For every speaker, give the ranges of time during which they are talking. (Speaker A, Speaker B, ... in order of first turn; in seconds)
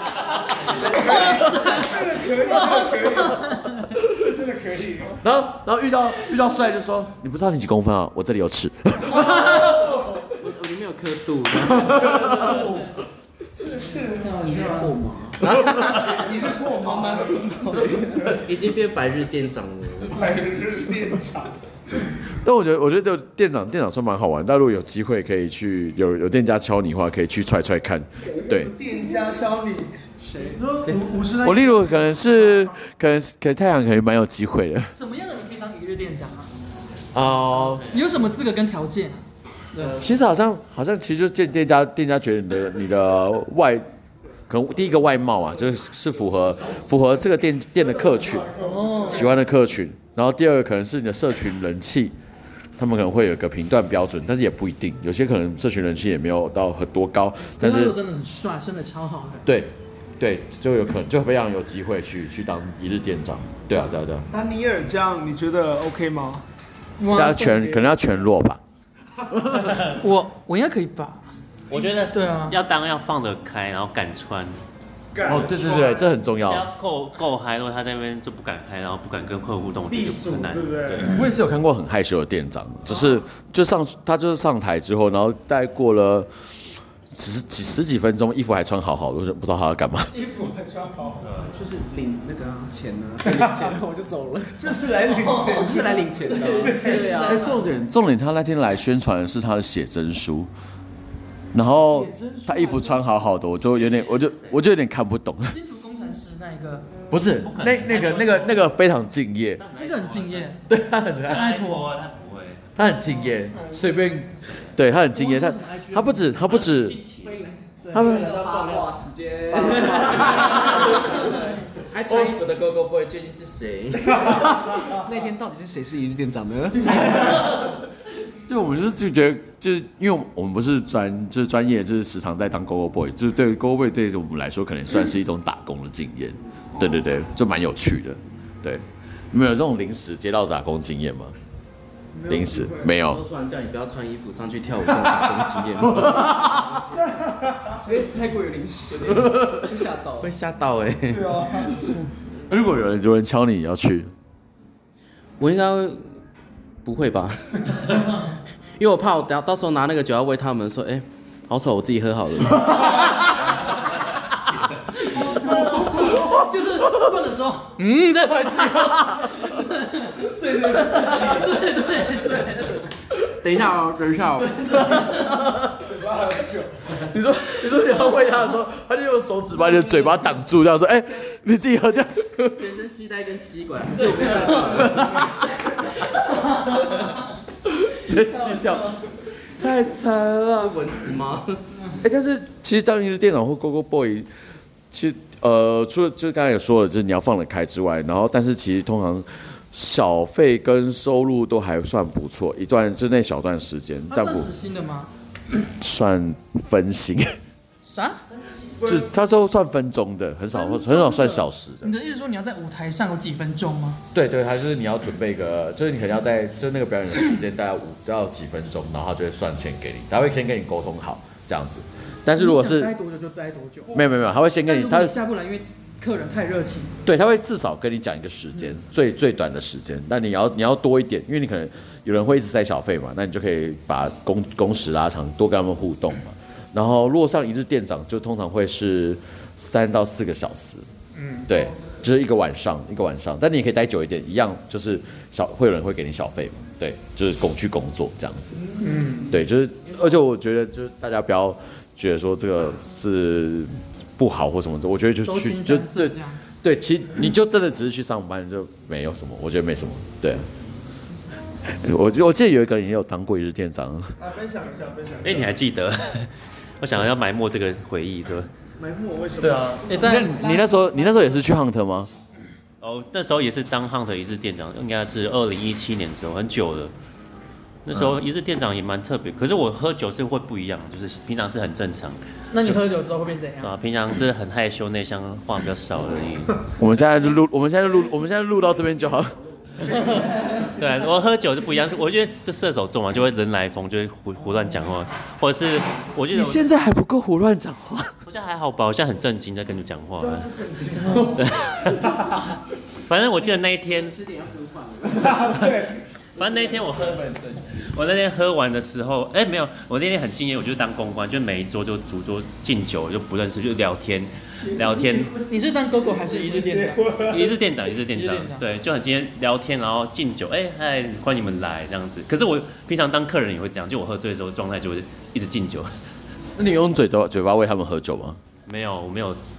Speaker A: 0.6-5.2, 11.9-13.0, 13.6-14.4, 15.8-18.4, 20.0-21.5, 28.4-32.1, 46.5-47.1, 47.7-49.4, 64.3-66.4, 75.1-76.1, 79.9-81.2, 90.1-91.3, 93.2-93.8, 94.6-96.0, 96.6-97.0, 101.6-103.0, 142.1-142.9, 146.9-147.8, 151.1-151.9, 165.2-166.3, 170.2-171.7, 175.7-177.0, 208.7-209.1, 264.2-265.6, 268.8-269.8, 300.2-301.6, 305.3-306.0, 316.3-317.5
Speaker B: 0.8-1.7, 5.2-9.9, 11.9-12.2, 22.4-28.7, 31.4-34.9, 37.1-37.9, 39.8-43.9, 44.5-52.1, 52.8-58.0, 59.4-64.3, 67.1-68.6, 69.3-69.9, 75.2-76.7, 81.0-86.5, 87.1-90.1, 97.2-100.5, 101.5-105.6, 107.1-109.6, 110.7-111.5, 112.8-117.0, 117.9-118.3, 127.0-127.7, 128.5-141.3, 142.3-143.2, 145.8-146.8, 149.2-149.7, 152.5-154.1, 168.5-169.5, 174.7-175.7, 177.0-182.7, 184.6-185.3, 187.6-190.9, 192.0-194.3, 194.9-204.5, 205.7-207.4, 208.8-211.9, 214.1-222.9, 223.9-225.2, 227.0-240.8, 241.5-248.6, 249.3-260.5, 261.6-264.1, 269.4-272.1, 286.7-289.4, 296.3-298.2, 326.6-328.4
Speaker C: 0.9-1.9, 2.7-3.7, 12.2-12.8, 13.9-15.0, 34.9-36.5, 37.9-40.0, 48.6-49.3, 57.6-59.4, 67.0-67.8, 69.8-71.2, 72.1-72.6, 95.0-97.7, 105.5-106.9, 109.8-110.6, 111.3-112.0, 115.1-116.4, 117.8-118.6, 157.9-158.4, 165.0-170.1, 171.1-172.8, 174.8-175.2, 204.1-205.1, 207.9-208.2, 210.5-214.0, 222.3-223.9, 224.6-226.9, 241.1-241.5, 248.8-249.3, 255.2-256.4, 269.8-271.5, 282.5-283.7, 289.9-290.3, 301.0-301.3, 315.4-317.1, 318.1-318.6
Speaker D: 10.4-12.4, 15.4-20.4, 118.4-118.9, 119.5-124.4, 142.9-146.3, 150.2-151.8, 155.4-156.1, 156.8-158.0, 158.8-163.1, 173.4-174.9, 182.4-185.3, 190.5-191.6
Speaker E: 14.4-15.4, 91.5-97.5, 117.2-121.6, 124.3-127.1, 146.1-147.1, 147.7-150.3, 303.9-305.6, 306.4-307.8
Speaker F: 37.6-38.0, 71.7-74.6, 76.4-81.1, 91.2-91.6, 103.6-104.6, 107.4-108.7, 109.6-110.6, 111.3-112.6, 116.4-117.5, 265.2-268.5, 272.8-276.9, 277.8-282.2, 283.6-286.7, 290.5-296.6, 298.2-300.7, 301.2-302.5, 303.1-304.2, 306.4-315.4, 317.2-325.9, 328.6-329.4